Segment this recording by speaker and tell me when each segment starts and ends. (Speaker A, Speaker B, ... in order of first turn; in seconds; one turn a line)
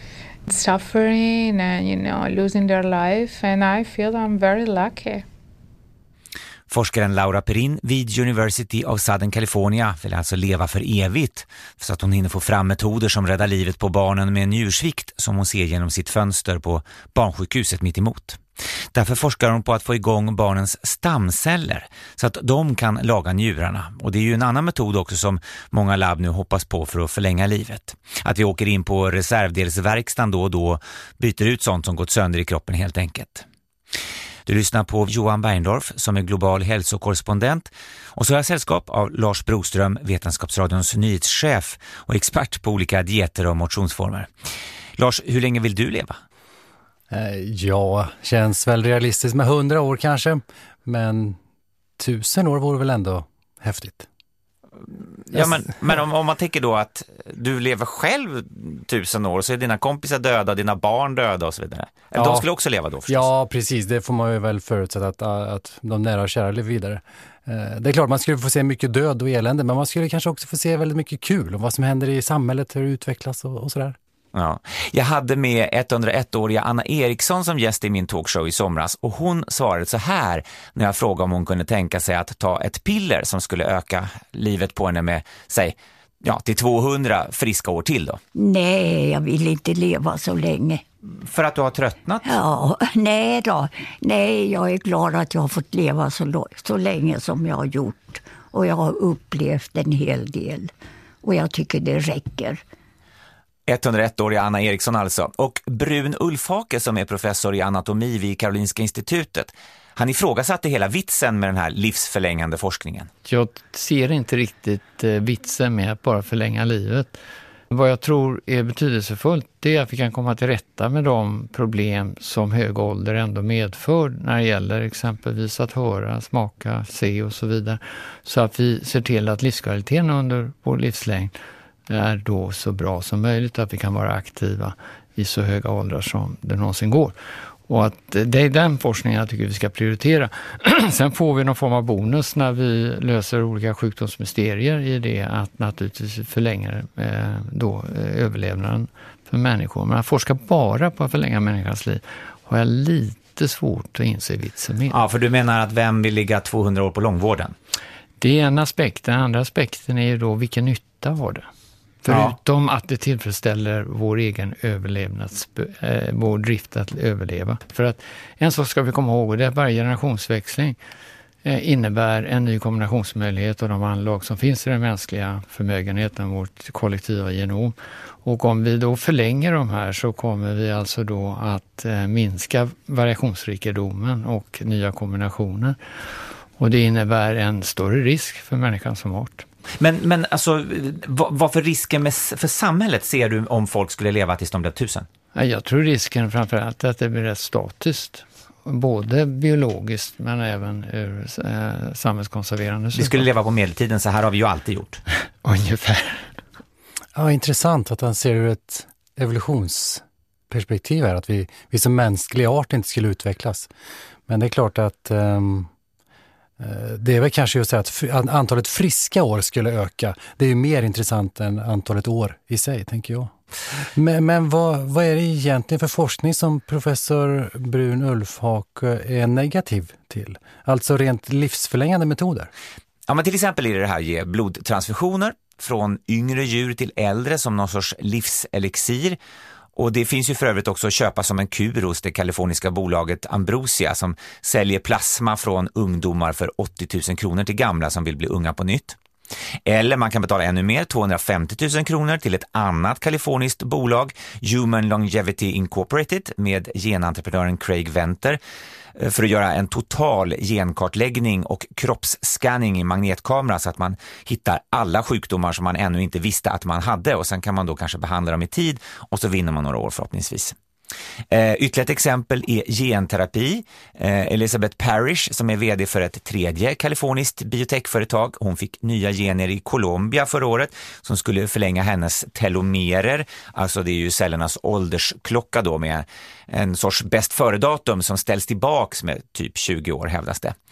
Speaker A: 0.5-5.2
Speaker B: 6.7-18.4
Speaker B: 18.9-33.5
Speaker B: 34.5-44.3
Speaker B: 45.0-46.2
Speaker C: 47.1-51.4
Speaker C: 52.0-54.1
Speaker B: 55.2-63.3
Speaker C: 62.1-62.5
Speaker C: 63.1-74.0
Speaker B: 74.3-88.2
Speaker D: 88.3-90.8
Speaker B: 91.2-92.3
Speaker D: 92.2-100.7
Speaker D: 101.2-102.6
Speaker B: 103.7-113.1
Speaker E: 113.3-117.2
Speaker E: 117.7-131.3
Speaker E: 131.9-155.0
Speaker B: 154.9-157.6
Speaker E: 158.2-161.5
Speaker E: 162.0-170.8
Speaker B: 162.1-162.4
Speaker E: 171.4-189.5
Speaker B: 189.8-195.1
Speaker E: 195.3-203.2
Speaker B: 202.9-205.0
Speaker E: 205.4-206.3
Speaker C: 207.2-213.7
Speaker C: 214.3-215.7
Speaker C: 216.6-232.5
Speaker B: 233.1-239.2
Speaker B: 239.8-249.0
Speaker B: 249.7-258.4
Speaker B: 259.0-270.6
Speaker B: 271.3-290.6